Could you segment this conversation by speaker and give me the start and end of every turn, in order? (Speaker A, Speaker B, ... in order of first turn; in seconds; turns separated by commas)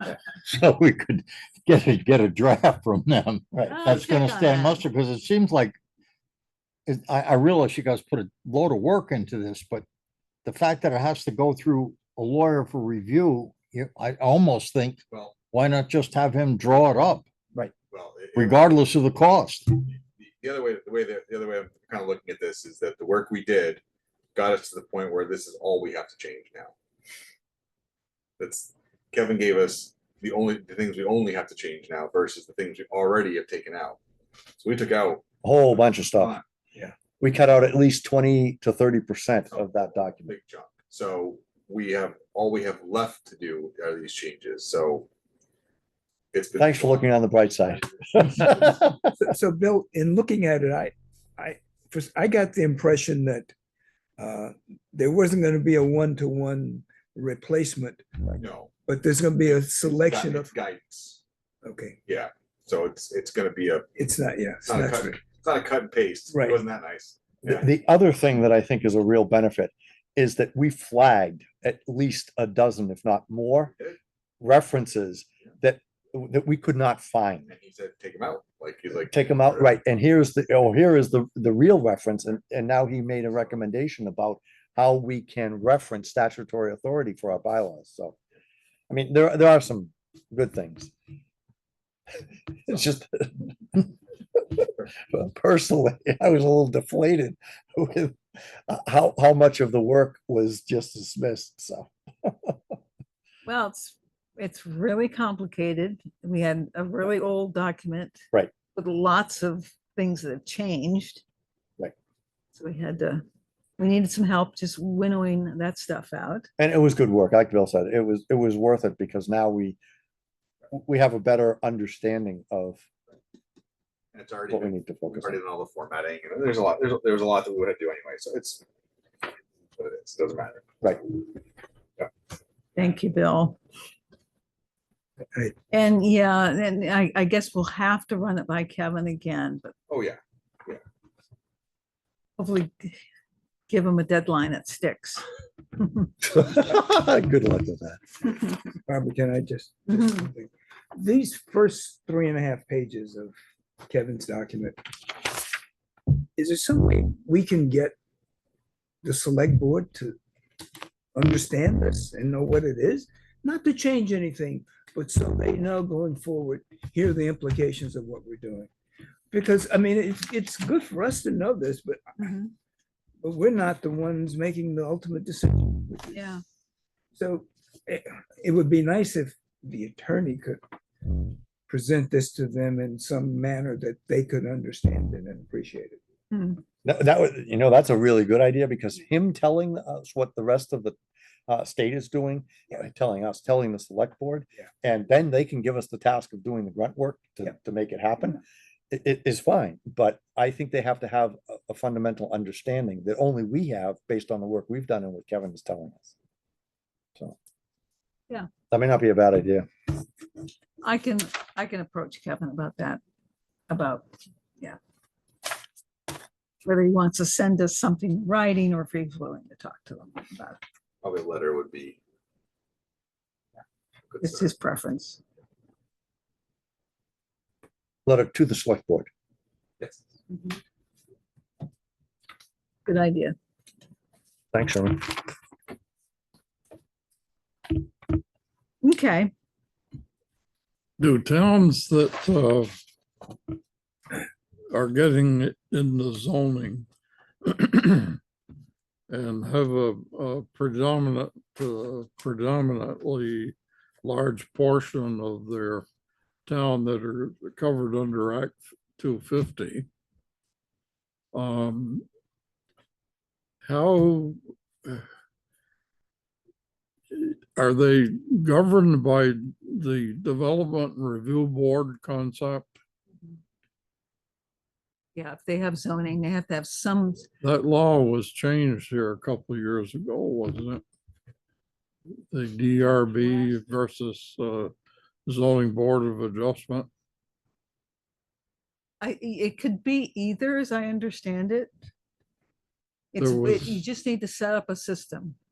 Speaker A: 0.4-3.5, Speaker B: 3.5-4.0, Speaker C: 3.7-4.8, Speaker D: 3.8-4.7, Speaker A: 4.7-5.8, Speaker A: 6.8-9.8, Speaker A: 10.4-17.3, Speaker E: 15.1-15.4, Speaker E: 17.9-18.8, Speaker A: 18.4-19.7, Speaker E: 19.7-23.8, Speaker E: 24.4-26.7, Speaker E: 28.4-34.0, Speaker E: 34.6-36.4, Speaker B: 35.4-36.4, Speaker B: 37.2-40.3, Speaker E: 39.5-45.1, Speaker E: 46.3-47.1, Speaker B: 46.6-49.0, Speaker F: 49.2-53.5, Speaker F: 54.2-60.5, Speaker E: 58.4-58.7, Speaker E: 59.8-61.2, Speaker F: 61.6-62.0, Speaker E: 62.0-63.9, Speaker F: 64.0-65.2, Speaker E: 64.6-67.7, Speaker F: 66.3-66.6, Speaker B: 67.4-73.7, Speaker B: 74.4-77.5, Speaker E: 77.5-79.7, Speaker B: 79.0-88.2, Speaker B: 88.9-90.9, Speaker B: 92.5-93.9, Speaker B: 94.6-98.2, Speaker B: 98.7-102.6, Speaker C: 103.4-108.2, Speaker C: 108.7-111.2, Speaker C: 112.5-113.2, Speaker C: 113.8-116.5, Speaker B: 116.6-119.8, Speaker B: 120.7-122.8, Speaker E: 124.1-128.6, Speaker B: 124.5-125.4, Speaker E: 129.8-130.7, Speaker C: 132.8-133.6, Speaker C: 135.7-139.7, Speaker E: 139.9-140.8, Speaker C: 142.4-143.0, Speaker C: 143.7-145.2, Speaker B: 146.2-148.0, Speaker F: 148.9-153.3, Speaker F: 153.8-154.8, Speaker F: 156.4-157.9, Speaker F: 159.0-160.2, Speaker F: 161.2-168.7, Speaker F: 169.3-172.1, Speaker C: 172.2-172.5, Speaker F: 173.2-176.2, Speaker C: 176.1-176.4, Speaker F: 177.2-180.6, Speaker F: 181.7-186.0, Speaker C: 186.3-186.6, Speaker B: 186.8-191.0, Speaker B: 191.5-206.1, Speaker B: 208.7-209.7, Speaker C: 210.8-213.0, Speaker C: 213.7-214.8, Speaker C: 216.6-220.6, Speaker E: 221.0-222.0, Speaker E: 224.1-224.5, Speaker C: 224.2-225.2, Speaker B: 228.1-229.1, Speaker C: 232.8-233.3, Speaker B: 234.5-235.2, Speaker C: 238.8-239.3, Speaker D: 241.0-242.7, Speaker D: 244.7-246.9, Speaker D: 247.5-248.2, Speaker D: 249.1-255.9, Speaker D: 256.4-259.9, Speaker D: 261.3-262.0, Speaker D: 263.6-265.0, Speaker D: 267.1-272.7, Speaker C: 275.1-277.3, Speaker D: 277.4-280.8, Speaker D: 282.3-284.7, Speaker C: 283.0-283.6, Speaker D: 285.2-286.9, Speaker C: 289.0-291.7, Speaker C: 293.1-295.4, Speaker D: 293.2-293.6